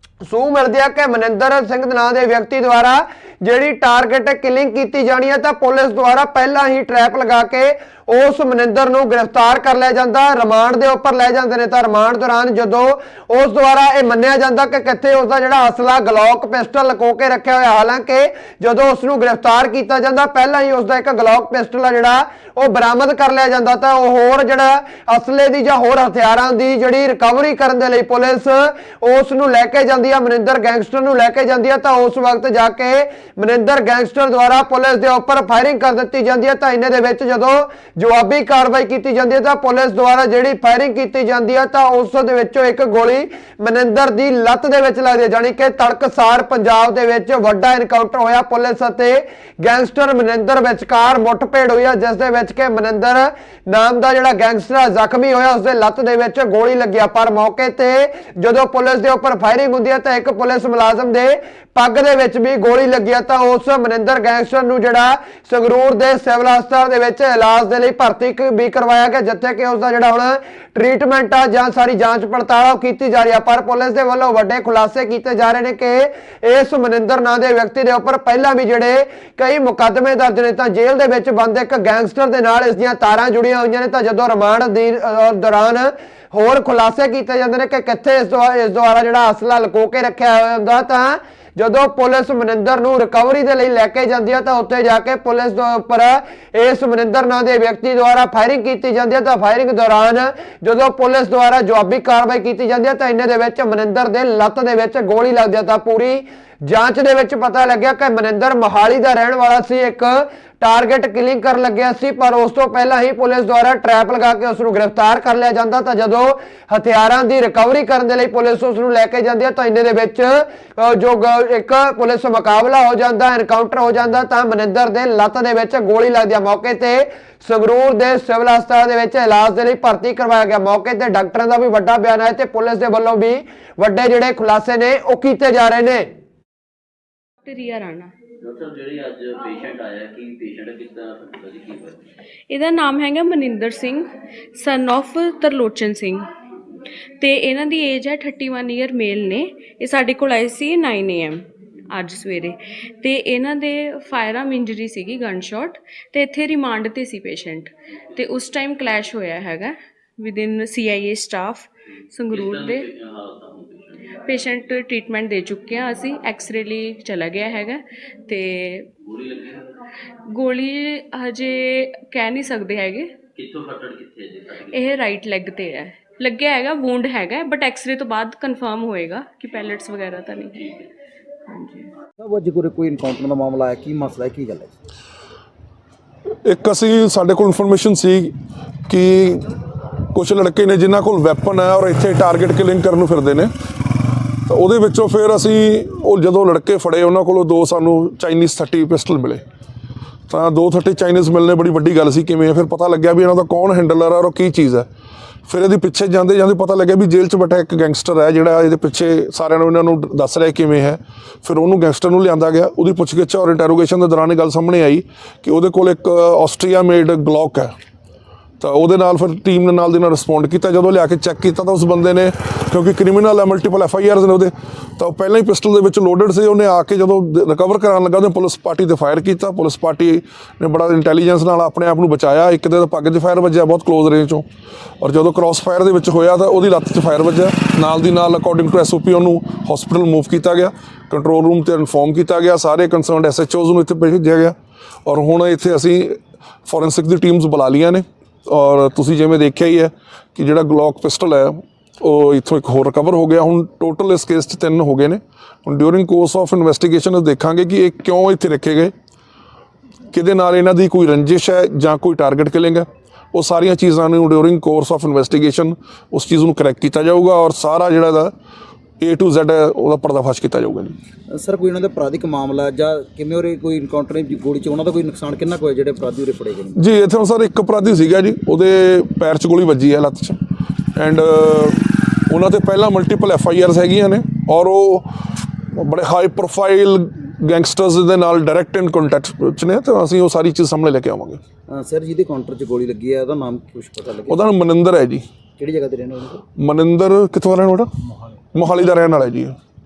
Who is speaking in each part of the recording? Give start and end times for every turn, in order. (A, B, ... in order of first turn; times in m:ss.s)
0:00.2-2:16.1 A
2:17.4-2:18.1 B
2:18.4-2:22.0 C
2:22.5-2:26.2 B
2:27.2-2:42.9 B
2:42.3-2:44.1 C
2:44.2-2:48.9 B
2:49.0-2:49.6 C
2:50.3-2:53.1 B
2:53.4-2:54.8 C
2:54.7-3:00.6 B
3:02.2-3:04.7 D
3:06.4-3:08.3 E
3:08.9-3:09.5 E
3:10.1-3:13.5 E
3:14.4-3:19.4 E
3:20.3-3:24.9 E
3:25.5-3:37.7 E
3:38.6-3:54.4 E
3:55.0-4:18.9 E
4:20.1-4:28.3 E
4:29.0-4:31.0 E
4:31.3-4:36.8 D
4:36.8-4:40.4 E
4:40.9-4:45.1 E
4:45.7-4:51.4 E
4:51.7-4:54.4 D
4:54.2-4:55.2 E
4:55.6-4:56.4 D
4:56.6-4:57.9 E
4:58.5-4:59.6 E